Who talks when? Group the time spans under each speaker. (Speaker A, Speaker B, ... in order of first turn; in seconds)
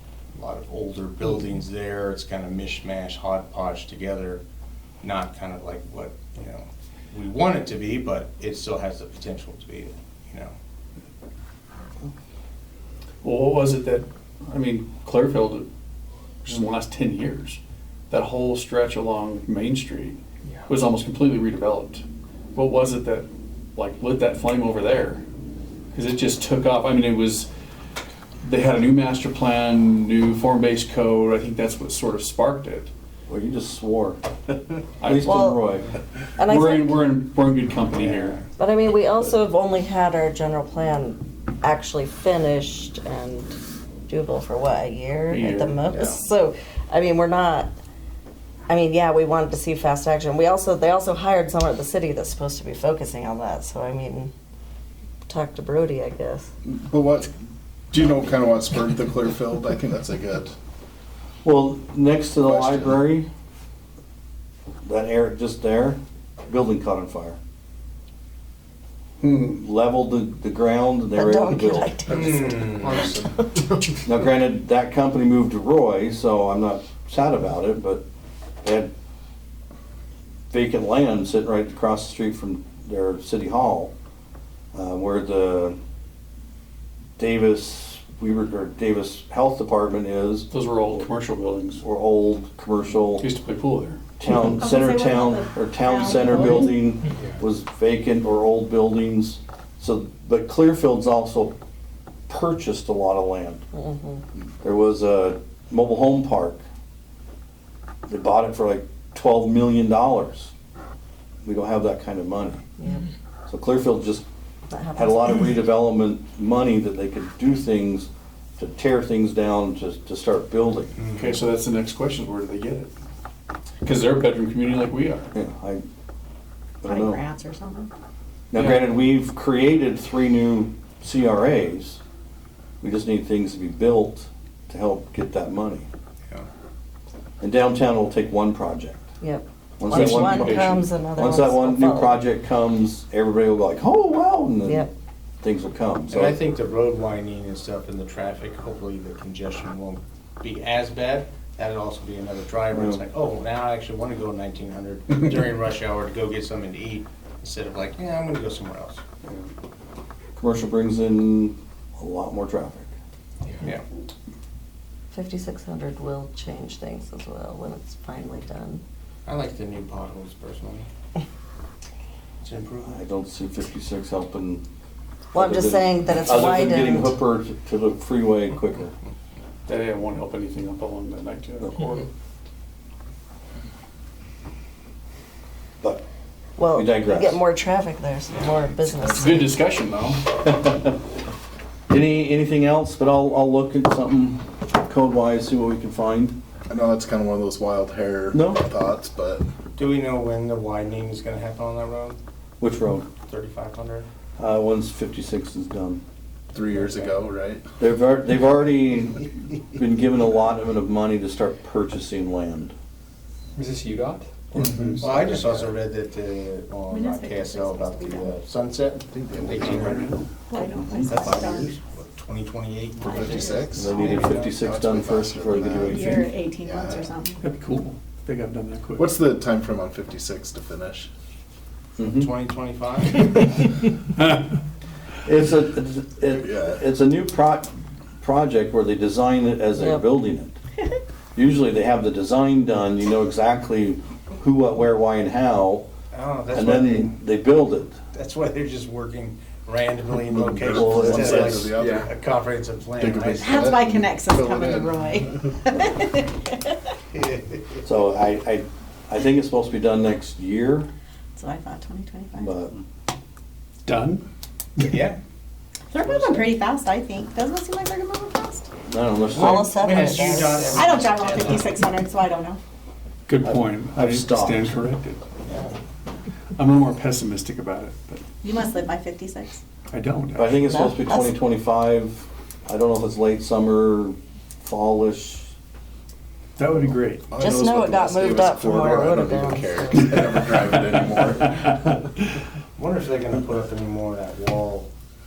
Speaker A: 0.3-4.4, 5.0-10.6, 38.0-38.4, 72.1-73.1, 121.0-121.4, 146.1-159.0, 163.5-163.8, 169.3-170.9, 172.4-173.0, 199.8-202.2, 203.3-204.1, 206.6-207.2, 215.0-224.6, 232.1-233.5, 246.1-247.2, 248.1-253.7, 257.1-257.8, 264.8-265.2, 266.0-266.5, 269.3-271.8, 275.5-275.8, 292.8-294.9
Speaker B: 13.2-15.7, 16.4-17.6, 18.1-25.2, 25.9-27.5, 28.4-32.9, 35.0-35.5, 36.4-38.4, 45.3-45.9, 90.5-91.8, 93.2-94.0, 121.2-122.9, 123.8-125.3, 128.6-128.9, 139.9-140.9, 179.7-182.1, 189.0-190.3, 213.6-215.6, 219.6-220.3, 227.4-229.2, 263.9-264.2, 273.3-275.2, 276.6-278.2, 279.9-280.6, 286.6-287.3
Speaker C: 33.3-34.2, 35.0-35.9, 61.4-63.3, 64.8-67.4, 69.2-72.1, 74.0-78.0, 78.6-78.9, 80.5-83.9, 84.7-85.8, 87.2-90.5, 91.8-93.3, 94.2-101.5, 102.3-103.6, 104.6-106.6, 108.1-110.5, 111.5-112.6, 113.5-114.3, 115.0-121.0, 125.3-125.8, 126.8-127.2, 128.5-132.0, 132.8-135.9, 137.4-139.1, 139.8-144.9, 145.4-146.4, 152.7-153.0, 159.2-159.5, 160.4-162.9, 172.8-174.6, 175.3-178.9, 186.7-187.4, 190.4-191.0, 191.9-196.4, 198.3-198.6, 202.6-203.1, 204.4-206.0, 207.8-212.7, 223.7-226.2, 232.0-232.3, 235.2-240.6, 241.3-245.9, 246.5-248.0, 250.7-251.7, 257.8-260.9, 262.4-262.7, 268.9-270.1, 273.4-274.7, 280.4-285.5
Speaker D: 35.2-35.6, 36.4-37.0, 38.6-43.5, 44.1-47.7, 48.7-54.3, 55.3-56.5, 71.1-72.7, 103.7-104.2, 114.7-115.5, 139.2-142.2, 144.7-144.9, 165.1-168.8, 175.3-177.1, 186.6-189.6, 239.8-240.0, 269.4-270.9, 280.7-281.3, 287.4-290.2
Speaker E: 56.6-57.3, 57.9-60.5, 62.4-63.0, 72.1-73.6, 196.7-199.4, 206.5-207.6, 214.6-215.1, 219.1-220.1, 223.0-227.2, 229.0-231.1, 236.3-236.8, 250.3-252.1, 253.0-255.5, 287.3-291.7
Speaker F: 94.3-96.8, 126.8-127.9, 216.9-218.4, 220.5-221.8, 223.1-224.1, 225.9-227.4, 253.4-256.8, 261.4-262.6, 265.9-268.7, 270.7-272.6, 278.4-279.6